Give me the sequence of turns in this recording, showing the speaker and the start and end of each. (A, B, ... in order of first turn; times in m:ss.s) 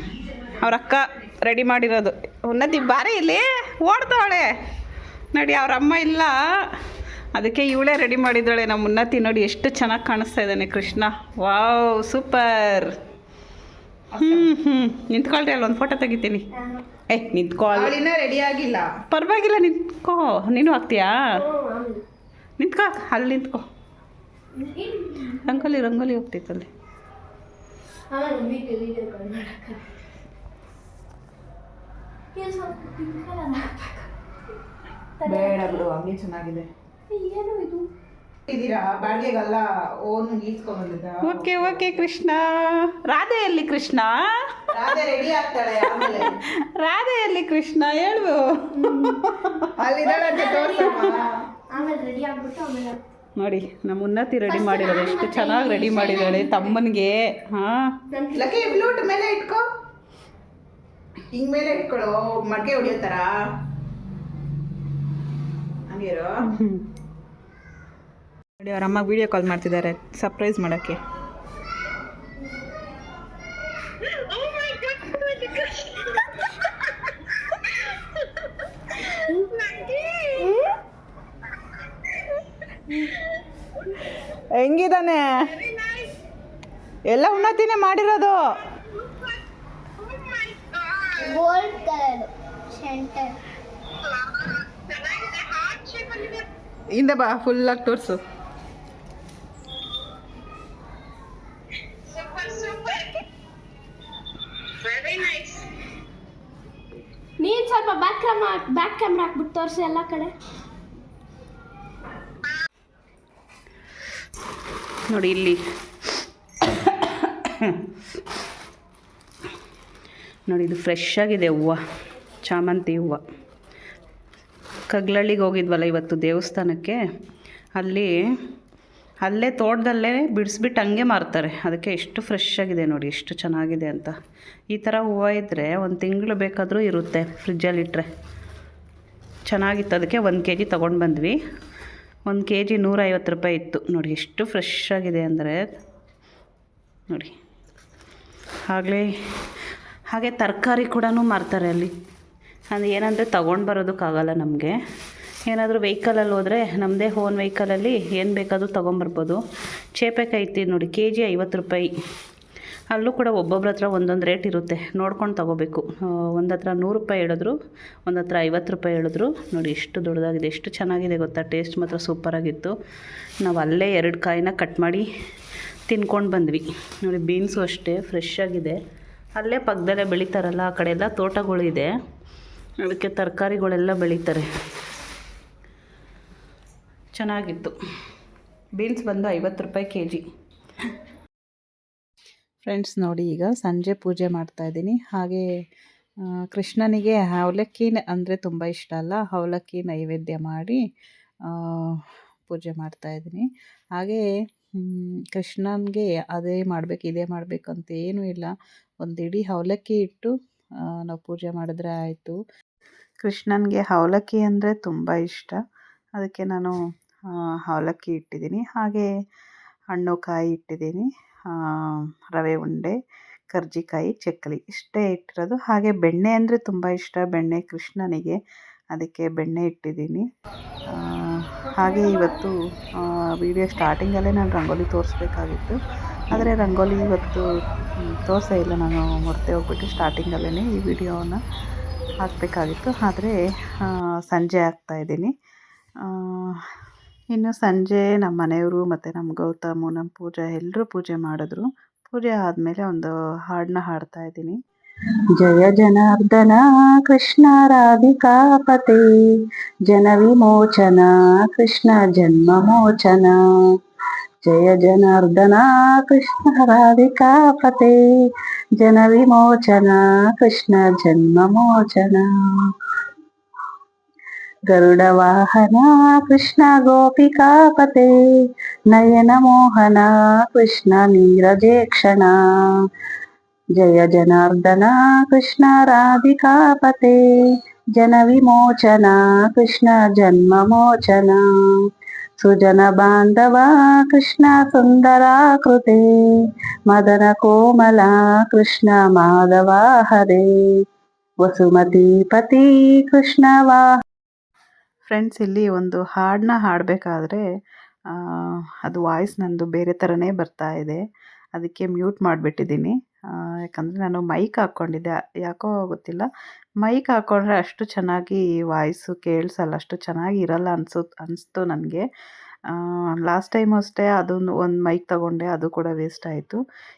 0:00.6-0:04.5 A
0:05.3-0:06.4 A
0:07.4-0:13.0 A
0:14.1-0:14.5 B
0:14.2-0:16.5 A
0:17.1-0:17.9 A
0:17.7-0:18.9 B
0:19.1-0:21.4 A
0:21.4-0:22.0 C
0:22.6-0:23.6 A
0:24.6-0:25.6 C
0:25.4-0:26.7 A
0:28.1-0:29.8 C
0:32.3-0:34.1 C
0:35.2-0:35.8 C
0:35.2-0:36.7 B
0:37.1-0:37.9 C
0:38.5-0:41.7 B
0:41.2-0:44.2 A
0:44.7-0:46.4 B
0:46.0-0:49.7 A
0:48.8-0:49.3 C
0:49.8-0:51.3 B
0:50.0-0:53.0 C
0:53.4-0:58.0 A
0:54.5-0:56.8 C
0:58.1-0:59.0 C
0:58.3-0:59.7 B
1:01.3-1:03.5 B
1:05.9-1:06.4 B
1:06.5-1:06.8 A
1:08.6-1:11.0 B
1:14.4-1:15.9 B
1:19.5-1:20.5 B
1:20.4-1:20.7 C
1:24.5-1:25.7 B
1:27.1-1:28.4 B
1:31.2-1:33.4 C
1:36.9-1:38.2 B
1:42.2-1:42.9 C
1:44.9-1:45.2 C
1:47.4-1:50.3 C
1:55.1-1:55.6 A
1:57.4-1:57.8 A
2:00.5-2:01.8 A
2:02.4-2:03.2 A
2:04.9-2:07.0 A
2:07.8-2:08.2 A
2:09.2-2:14.1 A
2:14.7-2:18.1 A
2:19.5-2:21.4 A
2:22.3-2:25.6 A
2:28.7-2:29.1 A
2:30.1-2:31.9 A
2:32.7-2:34.8 A
2:35.5-2:39.4 A
2:40.0-2:41.9 A
2:42.9-2:47.6 A
2:48.1-2:52.7 A
2:53.4-2:55.0 A
2:55.9-2:58.8 A
2:59.4-3:01.9 A
3:02.8-3:04.5 A
3:07.2-3:07.7 A
3:08.8-3:10.2 A
3:12.7-3:15.4 A
3:16.5-3:20.8 A
3:21.5-3:24.2 A
3:24.8-3:30.3 A
3:30.9-3:32.4 A
3:33.2-3:35.6 A
3:36.2-3:36.8 A
3:37.3-3:39.1 A
3:39.9-3:43.0 A
3:43.5-3:48.4 A
3:48.9-3:50.2 A
3:50.9-3:55.8 A
3:56.3-4:01.4 A
4:02.2-4:05.3 A
4:06.0-4:06.6 A
4:07.3-4:14.6 A
4:15.4-4:19.1 A
4:19.9-4:23.4 A
4:24.5-4:28.0 A
4:28.8-4:32.3 A
4:34.7-4:38.1 A
4:38.9-4:42.4 A
4:43.8-4:47.2 A
4:48.0-4:51.4 A
4:52.4-4:56.0 A
4:56.9-5:00.5 A
5:01.4-5:03.8 A
5:05.1-5:07.4 A
5:08.1-5:11.0 A
5:11.6-5:16.3 A
5:16.8-5:22.0 A
5:22.7-5:26.6 A